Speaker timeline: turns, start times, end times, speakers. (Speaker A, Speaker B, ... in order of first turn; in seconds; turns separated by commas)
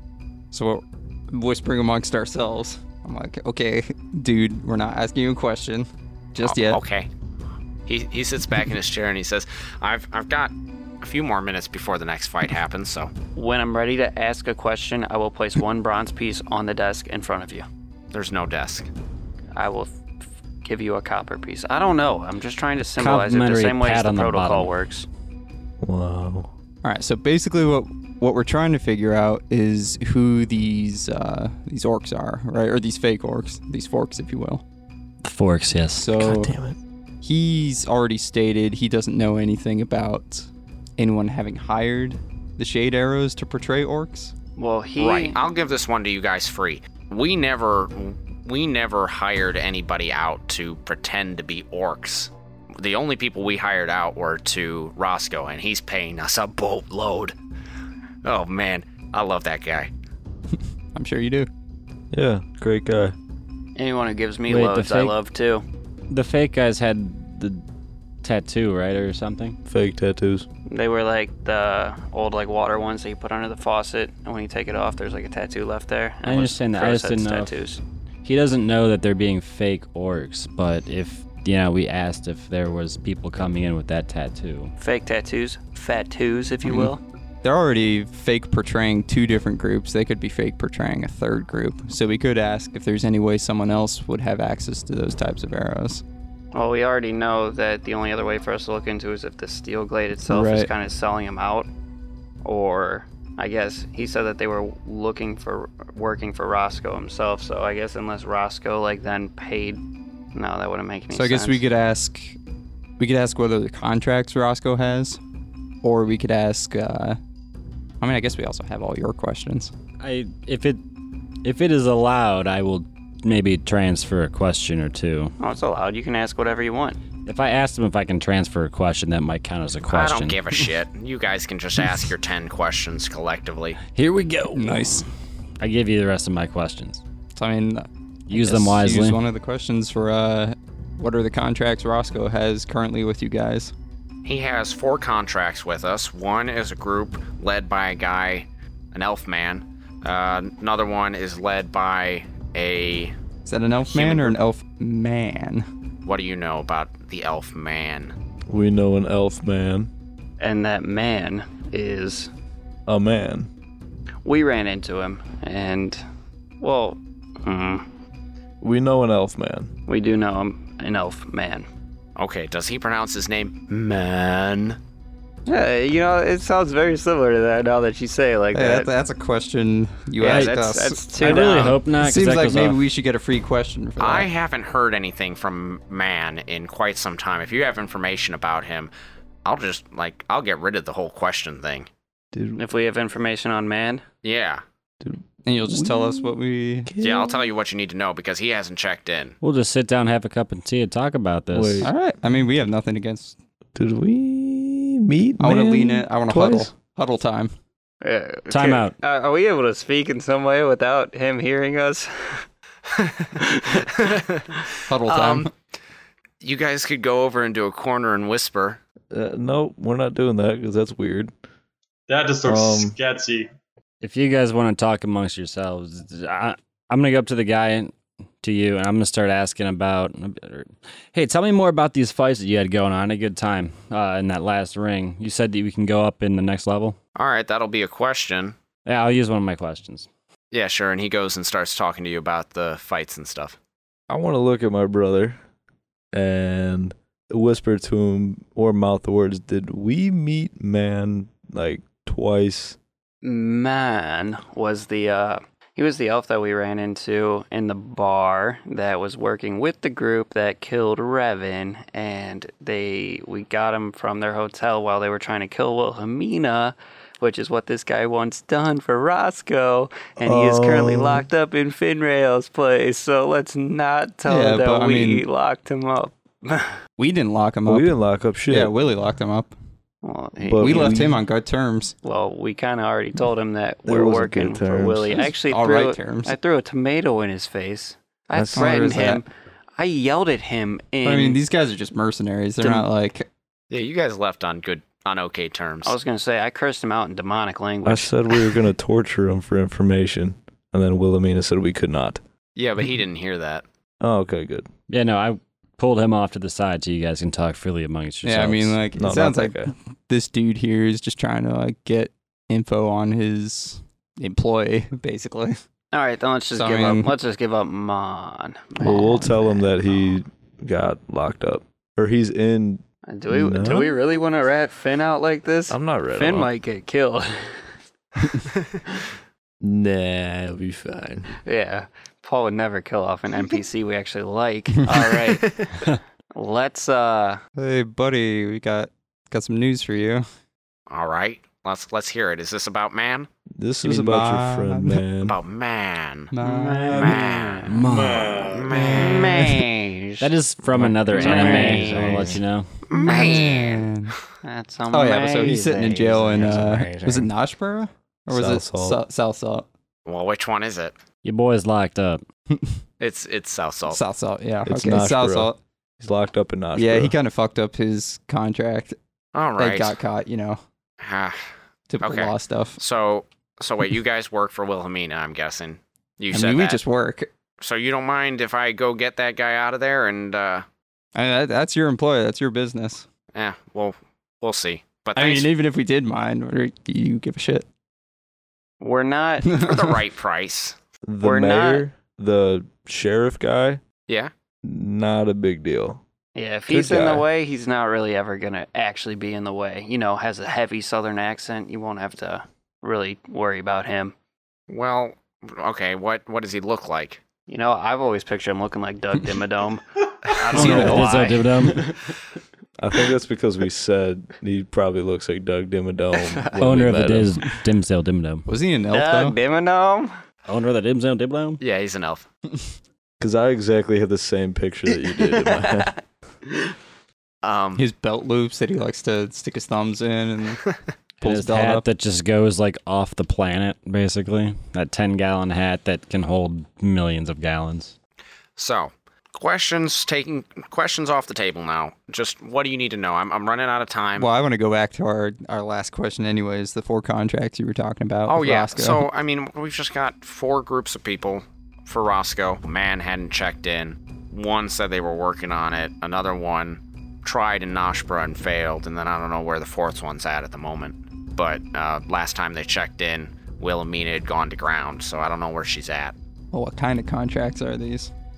Speaker A: 0.5-6.8, Speaker B: 6.4-7.1, Speaker B: 7.9-13.1, Speaker C: 13.3-17.7, Speaker B: 18.1-18.9, Speaker C: 19.5-20.0, Speaker C: 20.6-25.1, Speaker D: 23.0-24.7, Speaker E: 25.8-26.5, Speaker A: 26.8-34.6, Speaker D: 35.2-36.2, Speaker A: 36.0-36.5, Speaker E: 36.2-36.8, Speaker A: 37.2-44.3, Speaker C: 44.5-45.4, Speaker B: 45.0-57.4, Speaker B: 58.2-59.9, Speaker A: 60.9-61.5, Speaker E: 62.1-63.1, Speaker C: 63.8-65.6, Speaker D: 64.5-65.1, Speaker D: 66.1-67.6, Speaker D: 68.2-69.6, Speaker E: 69.7-70.5, Speaker C: 70.7-77.8, Speaker D: 76.2-77.5, Speaker D: 78.2-84.7, Speaker C: 84.8-87.0, Speaker A: 86.7-86.9, Speaker A: 87.4-96.0, Speaker C: 96.5-101.7, Speaker A: 100.3-100.7, Speaker C: 102.4-109.8, Speaker C: 110.3-111.6, Speaker A: 111.1-112.4, Speaker A: 113.0-115.2, Speaker A: 115.8-117.2, Speaker A: 118.0-119.7, Speaker D: 120.0-120.8, Speaker D: 121.4-125.3, Speaker C: 125.4-127.0, Speaker D: 127.2-130.4, Speaker B: 129.9-133.8, Speaker D: 133.9-135.1, Speaker A: 134.5-135.1, Speaker D: 135.6-137.0, Speaker A: 137.3-143.7, Speaker D: 138.3-139.2, Speaker B: 144.2-153.1, Speaker A: 153.4-155.7, Speaker B: 153.9-154.3, Speaker B: 156.0-158.1, Speaker E: 158.5-159.9, Speaker C: 160.4-162.3, Speaker E: 162.9-163.5, Speaker C: 164.2-166.0, Speaker C: 166.6-167.8, Speaker E: 168.6-169.7, Speaker C: 169.9-171.7, Speaker B: 172.2-174.8, Speaker C: 175.5-178.9, Speaker A: 178.5-184.3, Speaker C: 180.2-181.8, Speaker D: 180.2-182.8, Speaker B: 184.0-188.9, Speaker B: 189.4-191.9, Speaker E: 192.3-192.6, Speaker C: 192.6-194.0, Speaker B: 194.2-194.6, Speaker E: 195.0-197.5, Speaker A: 195.4-196.9, Speaker B: 197.0-199.3, Speaker D: 199.4-201.9, Speaker E: 201.5-201.9, Speaker A: 201.8-203.3, Speaker E: 203.7-206.7, Speaker A: 205.4-207.5, Speaker C: 208.0-212.4, Speaker D: 208.5-208.9, Speaker B: 213.0-215.5, Speaker A: 214.9-215.5, Speaker B: 216.4-218.8, Speaker E: 219.1-221.3, Speaker F: 222.1-223.5, Speaker E: 222.4-222.9, Speaker D: 224.0-236.9, Speaker B: 237.2-238.6, Speaker D: 238.8-240.1, Speaker B: 240.5-243.6, Speaker E: 244.1-245.4, Speaker E: 246.1-252.8, Speaker C: 253.2-276.8, Speaker E: 270.2-271.2, Speaker A: 274.2-275.2, Speaker A: 277.0-277.9, Speaker E: 277.6-278.7, Speaker A: 278.5-279.5, Speaker C: 280.0-281.1, Speaker E: 280.4-281.2, Speaker A: 280.6-281.9, Speaker C: 282.0-289.3, Speaker E: 283.9-285.3, Speaker A: 285.4-286.4, Speaker E: 288.3-288.8, Speaker A: 288.5-289.2, Speaker C: 289.8-291.4, Speaker A: 291.0-293.3, Speaker B: 293.7-296.0, Speaker C: 295.8-298.5, Speaker E: 297.8-302.2, Speaker B: 302.6-303.6, Speaker E: 304.0-304.7, Speaker D: 304.9-308.8, Speaker A: 308.2-315.6, Speaker E: 309.0-309.7, Speaker C: 315.9-319.7, Speaker A: 316.5-317.1, Speaker E: 318.8-323.9, Speaker C: 323.1-327.7, Speaker E: 325.7-326.5, Speaker E: 329.6-331.3, Speaker C: 331.4-335.6, Speaker B: 334.9-335.8, Speaker C: 336.3-337.4, Speaker A: 337.6-340.2, Speaker B: 340.9-343.3, Speaker E: 343.5-345.4, Speaker A: 343.8-345.0, Speaker B: 345.2-347.8, Speaker A: 346.3-347.2, Speaker C: 346.4-347.6, Speaker D: 347.6-348.4, Speaker F: 347.8-349.1, Speaker B: 348.5-349.9, Speaker C: 348.9-349.5, Speaker D: 350.2-352.7, Speaker A: 350.7-352.0, Speaker C: 351.1-352.4, Speaker B: 351.2-352.3, Speaker B: 352.9-353.8, Speaker A: 353.0-354.1, Speaker C: 353.1-353.7, Speaker C: 354.4-357.0, Speaker A: 354.9-359.7, Speaker D: 356.4-357.3, Speaker E: 358.3-359.0, Speaker B: 360.1-361.0, Speaker D: 361.2-362.2, Speaker A: 362.5-362.8, Speaker B: 363.0-364.0, Speaker A: 363.9-365.6, Speaker E: 364.6-367.1, Speaker A: 366.7-368.9, Speaker B: 369.3-370.0, Speaker A: 369.6-370.6, Speaker B: 371.0-371.4, Speaker A: 371.9-372.8, Speaker B: 372.0-376.8, Speaker A: 376.3-377.3, Speaker B: 377.6-380.6, Speaker A: 381.1-383.0, Speaker B: 383.3-385.5, Speaker A: 385.1-387.7, Speaker C: 388.8-389.5, Speaker A: 389.5-389.9, Speaker B: 389.5-390.8, Speaker E: 391.0-393.8, Speaker C: 391.2-391.9, Speaker E: 394.6-396.0, Speaker C: 396.3-404.1, Speaker E: 396.7-397.2, Speaker B: 404.7-407.2, Speaker C: 407.5-411.8, Speaker D: 410.5-411.9, Speaker A: 410.5-411.1, Speaker B: 410.6-410.9, Speaker E: 412.8-417.4, Speaker D: 416.6-418.5, Speaker A: 418.5-419.4, Speaker C: 418.9-420.1, Speaker D: 420.5-421.6, Speaker B: 421.6-422.3, Speaker E: 423.2-425.9, Speaker C: 425.5-425.9, Speaker B: 427.4-427.9, Speaker A: 427.8-430.6, Speaker D: 431.2-437.9, Speaker A: 431.2-431.8, Speaker B: 438.6-444.3, Speaker A: 444.2-449.1, Speaker B: 448.3-466.1, Speaker A: 466.5-468.1